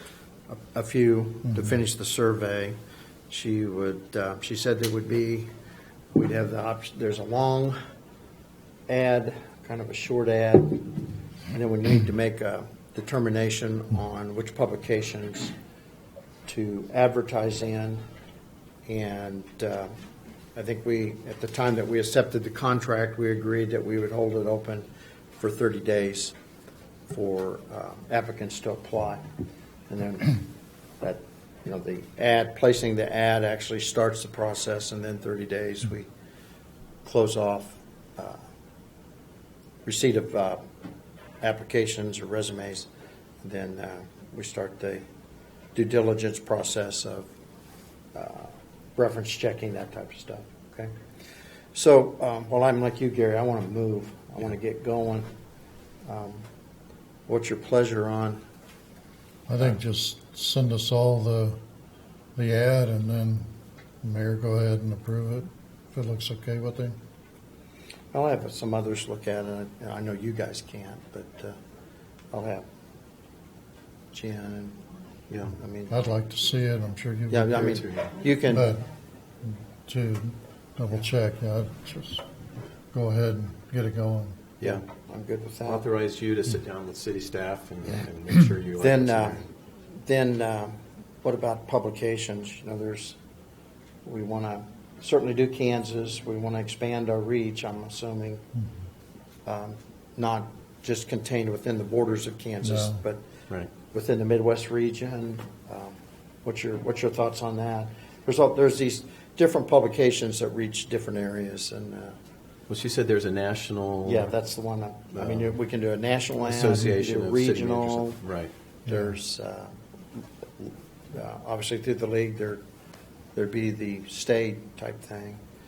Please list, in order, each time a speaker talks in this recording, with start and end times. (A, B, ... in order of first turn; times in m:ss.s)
0:00.5-0:02.8 A
0:03.3-0:05.5 A
0:06.1-0:07.8 A
0:08.9-0:15.5 A
0:16.5-0:18.0 A
0:18.9-0:19.9 A
0:20.6-0:26.3 A
0:27.1-0:29.2 A
0:29.9-0:30.4 A
0:31.0-0:36.1 A
0:37.0-0:38.4 A
0:39.8-0:40.6 A
0:41.4-0:42.9 A
0:43.4-0:45.0 A
0:45.8-0:47.3 A
0:48.2-0:50.9 A
0:51.7-0:55.3 A
0:56.1-0:56.4 A
0:57.3-0:58.4 A
0:59.5-1:01.6 B
1:02.4-1:03.5 B
1:04.0-1:07.0 B
1:08.1-1:11.6 A
1:12.3-1:12.7 A
1:14.1-1:14.8 A
1:15.5-1:15.9 A
1:15.9-1:17.8 B
1:17.3-1:18.7 A
1:17.6-1:18.2 C
1:18.5-1:18.9 B
1:19.4-1:22.2 B
1:22.9-1:24.5 B
1:24.6-1:25.9 A
1:25.6-1:29.4 C
1:28.8-1:29.4 A
1:29.9-1:33.2 A
1:34.0-1:38.4 A
1:39.4-1:43.2 A
1:42.6-1:43.0 B
1:43.8-1:52.2 A
1:52.7-1:54.3 C
1:54.0-1:58.2 A
1:55.2-1:55.5 C
1:56.4-1:58.5 C
1:58.9-1:59.1 B
1:58.9-2:02.6 A
2:03.4-2:05.4 A